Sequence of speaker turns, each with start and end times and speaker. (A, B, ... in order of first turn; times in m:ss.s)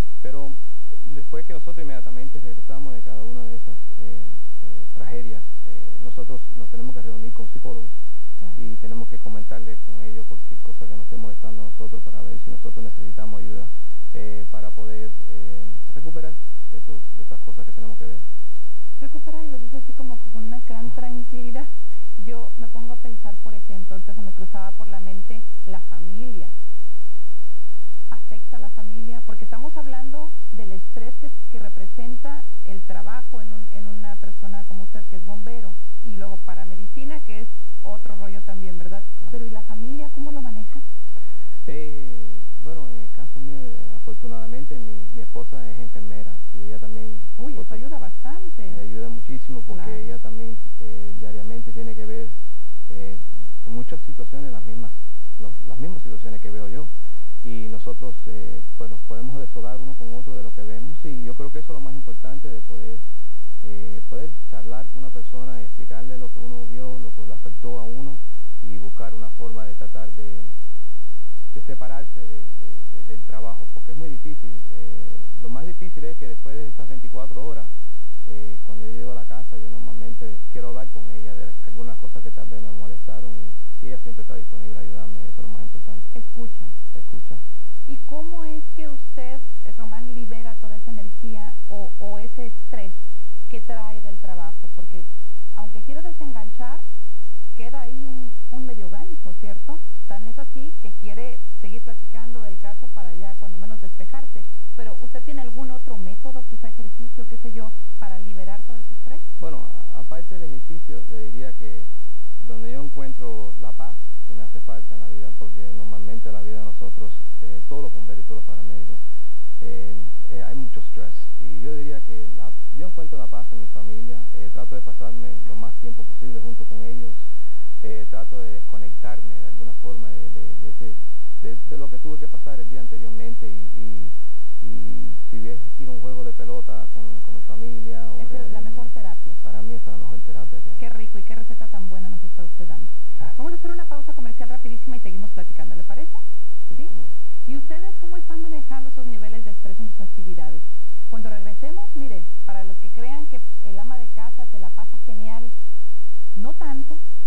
0:00.2-0:08.0 A
0:08.4-0:08.7 B
0:08.6-0:18.3 A
0:19.0-0:26.5 B
0:28.1-0:40.8 B
0:41.7-0:47.8 A
0:47.4-0:48.8 B
0:48.7-0:52.4 A
0:49.7-0:50.1 B
0:52.9-0:56.9 A
0:57.4-1:03.1 A
1:03.6-1:10.5 A
1:11.5-1:17.7 A
1:18.2-1:26.1 A
1:26.1-1:26.7 B
1:26.9-1:27.4 A
1:27.9-1:36.8 B
1:37.6-1:49.3 B
1:49.4-1:59.0 A
1:59.6-2:07.3 A
2:07.8-2:18.9 A
2:18.2-2:19.4 B
2:19.4-2:20.8 A
2:20.8-2:26.2 B
2:26.7-2:27.1 A
2:27.5-2:35.5 B
2:36.4-2:37.0 B